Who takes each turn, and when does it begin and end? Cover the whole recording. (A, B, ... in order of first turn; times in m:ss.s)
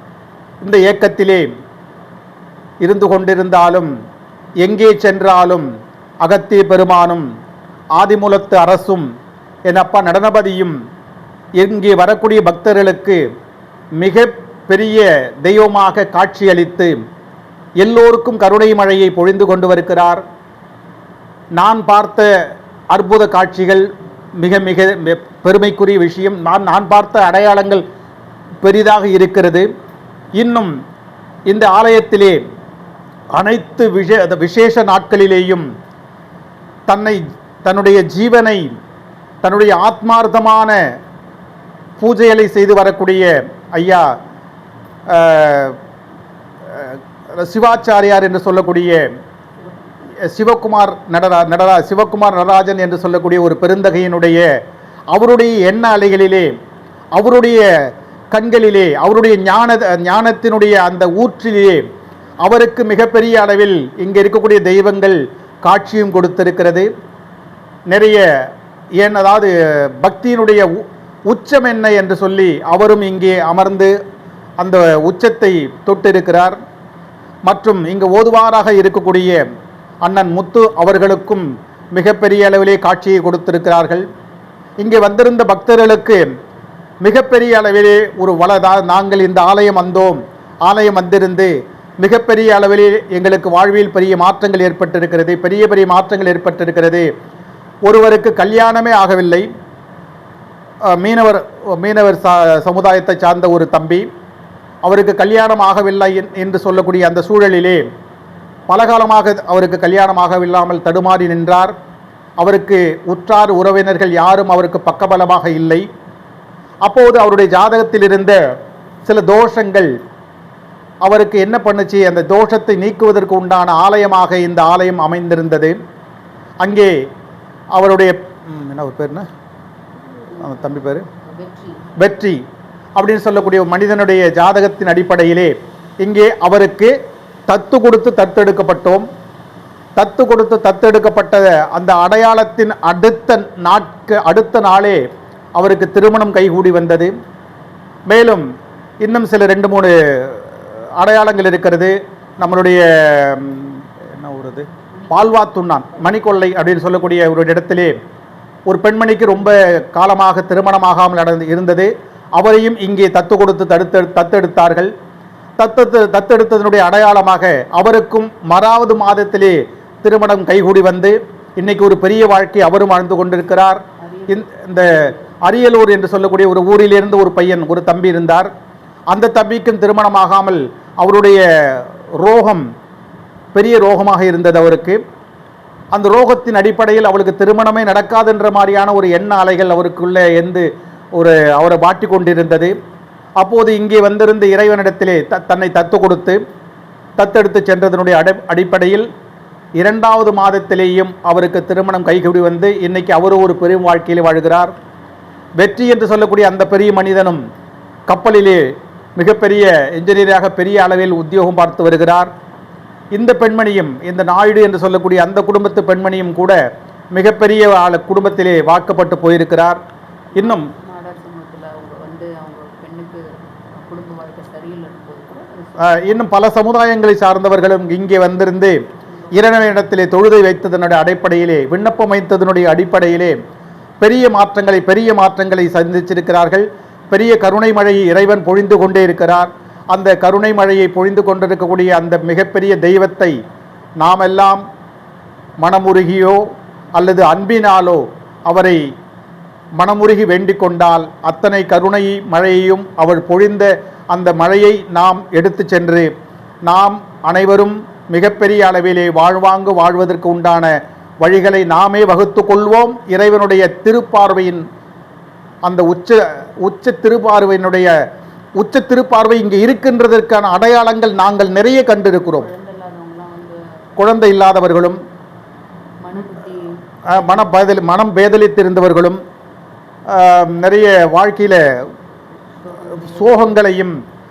0:00.6-0:01.5 A
0:02.8-0:03.9 A
0:04.6-0:05.7 A
0:06.2-0:07.3 A
0:08.0-0:09.1 A
0:09.7-0:10.8 A
0:11.6-0:13.2 A
0:14.0-0:17.0 A
0:17.8-0:20.2 A
0:21.6-0:22.3 A
0:22.9-0:27.8 A
0:28.6-0:29.7 A
0:30.4-0:30.7 A
0:31.5-0:32.4 A
0:33.4-0:35.6 A
0:36.9-0:38.7 A
0:39.4-0:40.8 A
0:42.0-0:44.0 A
0:45.1-0:45.8 A
0:46.7-0:49.1 A
0:50.2-0:54.5 A
0:55.1-0:56.5 A
0:57.2-0:57.6 A
0:58.3-1:01.8 A
1:02.4-1:06.9 A
1:07.9-1:08.2 A
1:09.0-1:10.7 A
1:11.3-1:13.9 A
1:14.6-1:16.6 A
1:17.5-1:19.4 A
1:20.0-1:24.1 A
1:24.8-1:26.3 A
1:27.0-1:37.1 A
1:37.8-1:39.5 A
1:40.9-1:44.1 A
1:44.8-1:47.8 A
1:48.7-1:51.7 A
1:52.4-1:55.8 A
1:56.8-1:58.4 A
1:59.0-1:59.9 A
2:01.0-2:05.8 A
2:06.6-2:06.9 A
2:07.7-2:09.3 A
2:10.4-2:11.9 B
2:10.4-2:11.1 A
2:12.0-2:12.4 A
2:13.0-2:16.9 A
2:17.5-2:19.0 A
2:20.0-2:25.0 A
2:25.6-2:27.1 A
2:28.1-2:28.4 A
2:29.0-2:30.5 A
2:31.0-2:37.9 A
2:38.7-2:44.9 A
2:45.6-2:58.5 A
2:54.0-2:55.2 B
2:59.1-3:02.6 A
3:03.6-3:05.0 A
3:05.9-3:12.7 A
3:13.4-3:16.4 A
3:17.2-3:19.1 A
3:19.8-3:24.7 A
3:25.6-3:27.4 A
3:28.1-3:28.6 A
3:29.2-3:32.3 A
3:33.1-3:36.6 A
3:37.1-3:39.8 A
3:40.4-3:40.7 A
3:40.4-3:46.2 B
3:45.8-3:53.4 A
3:49.1-3:49.5 B
3:54.0-4:03.4 A
4:04.0-4:04.6 A
4:05.6-4:06.4 A
4:06.9-4:08.8 A
4:09.8-4:16.1 A
4:16.7-4:24.6 A
4:25.6-4:27.9 A
4:28.6-4:32.5 A
4:32.2-4:33.6 B
4:34.0-4:35.0 A
4:36.0-4:37.5 B
4:37.1-4:39.2 A
4:40.1-4:41.6 A
4:42.6-4:43.6 B
4:43.0-4:44.0 A